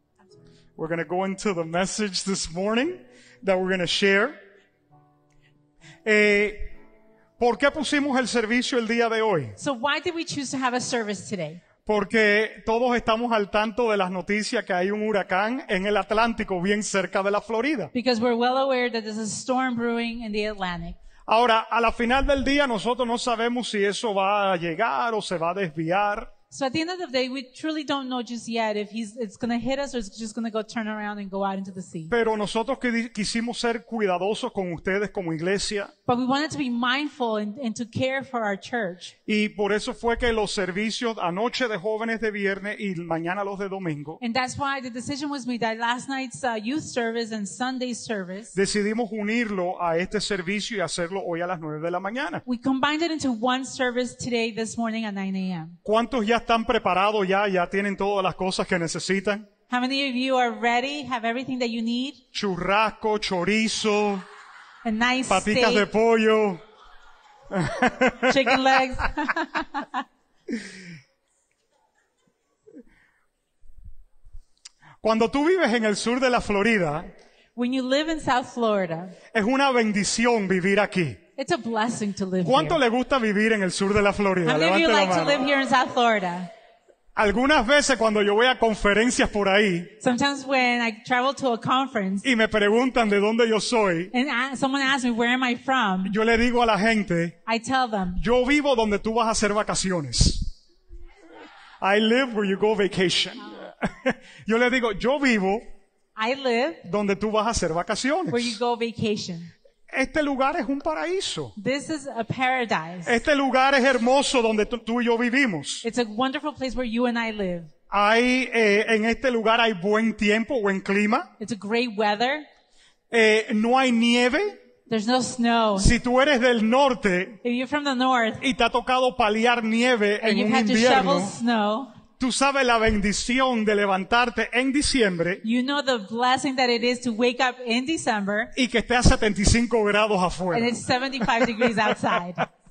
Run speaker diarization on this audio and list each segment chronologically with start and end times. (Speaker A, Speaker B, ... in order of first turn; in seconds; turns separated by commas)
Speaker A: 0.8-4.4, Speaker A: 6.0-6.7, Speaker A: 7.4-9.6, Speaker B: 9.6-11.6, Speaker A: 11.8-17.9, Speaker B: 17.9-21.0, Speaker A: 21.3-26.3, Speaker B: 26.5-32.1, Speaker A: 32.1-35.9, Speaker B: 36.1-39.1, Speaker A: 39.3-44.2, Speaker B: 44.2-48.5, Speaker A: 48.5-52.4, Speaker B: 52.5-55.8, Speaker A: 55.9-59.5, Speaker B: 59.7-62.2, Speaker A: 62.3-64.2, Speaker B: 64.8-65.8, Speaker A: 65.3-66.6, Speaker A: 67.5-68.4, Speaker B: 68.2-70.0, Speaker A: 75.0-77.1, Speaker B: 77.6-79.2, Speaker A: 79.3-81.2, Speaker B: 81.4-82.8, Speaker A: 82.4-85.5, Speaker B: 84.5-86.5, Speaker A: 87.2-89.9, Speaker B: 90.0-92.2, Speaker A: 92.2-94.1, Speaker B: 94.1-96.1, Speaker A: 96.0-97.4, Speaker B: 97.5-98.2, Speaker A: 98.2-100.5, Speaker A: 101.8-105.6, Speaker B: 106.2-106.9, Speaker A: 106.8-108.5, Speaker B: 108.3-109.5, Speaker A: 109.9-111.5, Speaker B: 111.6-113.2, Speaker A: 113.1-115.8, Speaker B: 115.8-117.7, Speaker A: 117.9-121.3, Speaker B: 121.4-122.5, Speaker A: 123.1-124.6, Speaker B: 124.9-125.9, Speaker A: 125.8-127.4, Speaker B: 127.4-128.4, Speaker A: 128.4-131.3, Speaker B: 130.2-131.9, Speaker A: 132.2-135.4, Speaker B: 135.4-138.5, Speaker A: 138.6-140.8, Speaker B: 140.5-142.5, Speaker A: 141.4-141.7